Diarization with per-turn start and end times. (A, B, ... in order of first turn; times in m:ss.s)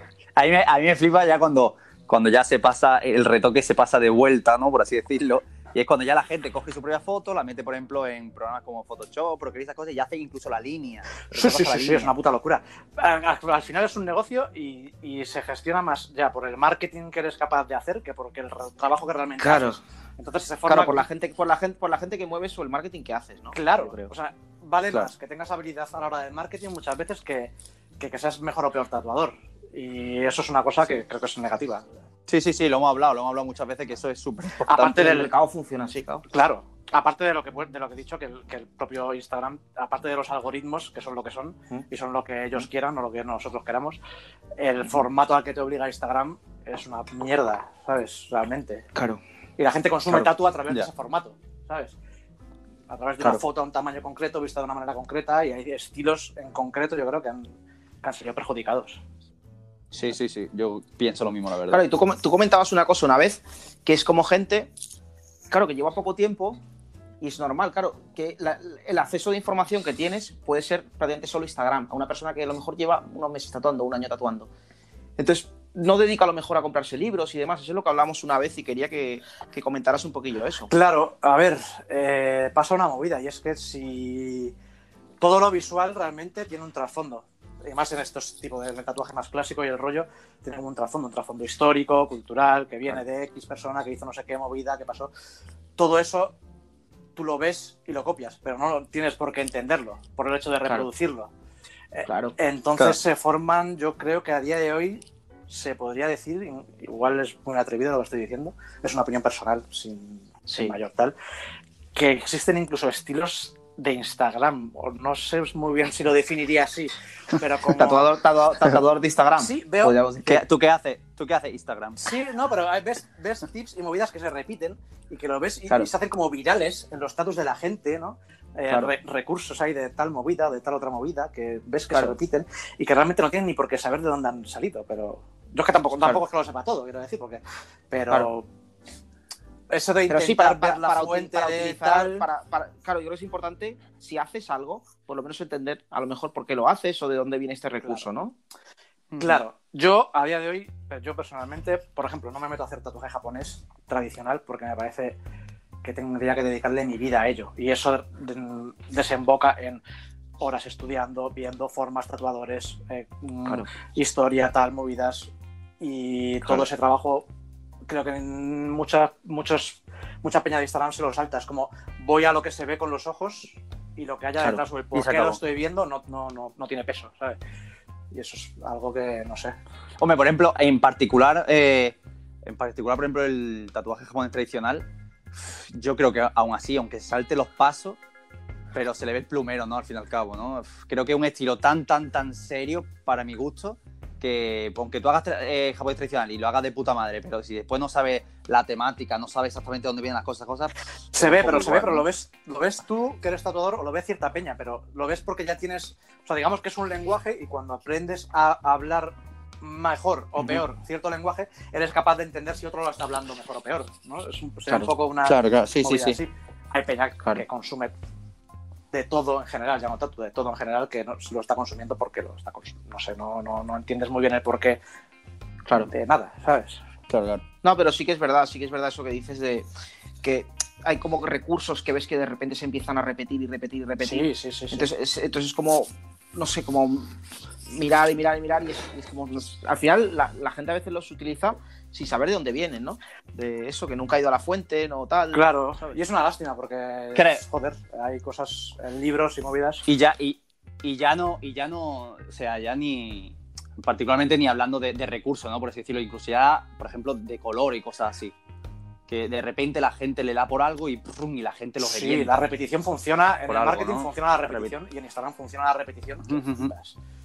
0:00.4-0:12.1 A
0:11.3-0:21.1 B
0:19.4-0:19.8 C
0:20.7-0:24.1 C
0:23.5-0:31.9 B
0:32.3-0:35.1 A
0:34.6-0:35.3 B
0:34.8-0:36.2 C
0:36.3-0:44.0 B
0:44.6-0:48.9 B
0:49.0-0:49.2 C
0:49.6-0:52.0 B
0:50.1-0:50.9 A
0:52.9-0:59.0 B
0:59.9-1:01.8 A
1:01.7-1:04.7 C
1:05.5-1:06.6 C
1:07.2-1:14.5 C
1:15.2-1:20.7 C
1:20.7-1:24.6 B
1:25.2-1:35.1 B
1:35.8-1:36.4 B
1:37.2-1:41.3 B
1:41.9-1:51.2 B
1:42.1-1:42.4 C
1:50.5-1:50.8 C
1:52.0-1:58.1 B
1:57.6-2:00.4 C
1:59.4-2:00.0 B
2:00.3-2:02.1 A
2:02.0-2:18.5 B
2:19.7-2:22.3 B
2:20.1-2:28.4 C
2:29.1-2:29.4 A
2:29.2-2:35.2 B
2:35.8-2:39.8 B
2:40.4-2:47.3 B
2:47.9-2:57.4 B
2:54.9-2:55.4 A
2:58.1-2:59.6 B
3:00.0-3:04.8 A
3:05.4-3:08.0 A
3:08.7-3:22.0 A
3:21.1-3:37.9 B
3:35.2-3:36.2 A
3:38.9-3:44.8 B
3:45.8-3:46.8 B
3:47.1-3:47.4 A
3:47.6-3:49.7 C
3:50.2-4:05.4 C
3:54.0-3:54.9 B
4:05.3-4:09.8 B
4:07.2-4:07.4 A
4:09.9-4:18.3 A
4:19.1-4:22.4 A
4:21.8-4:27.0 B
4:23.5-4:24.7 A
4:26.3-4:26.7 A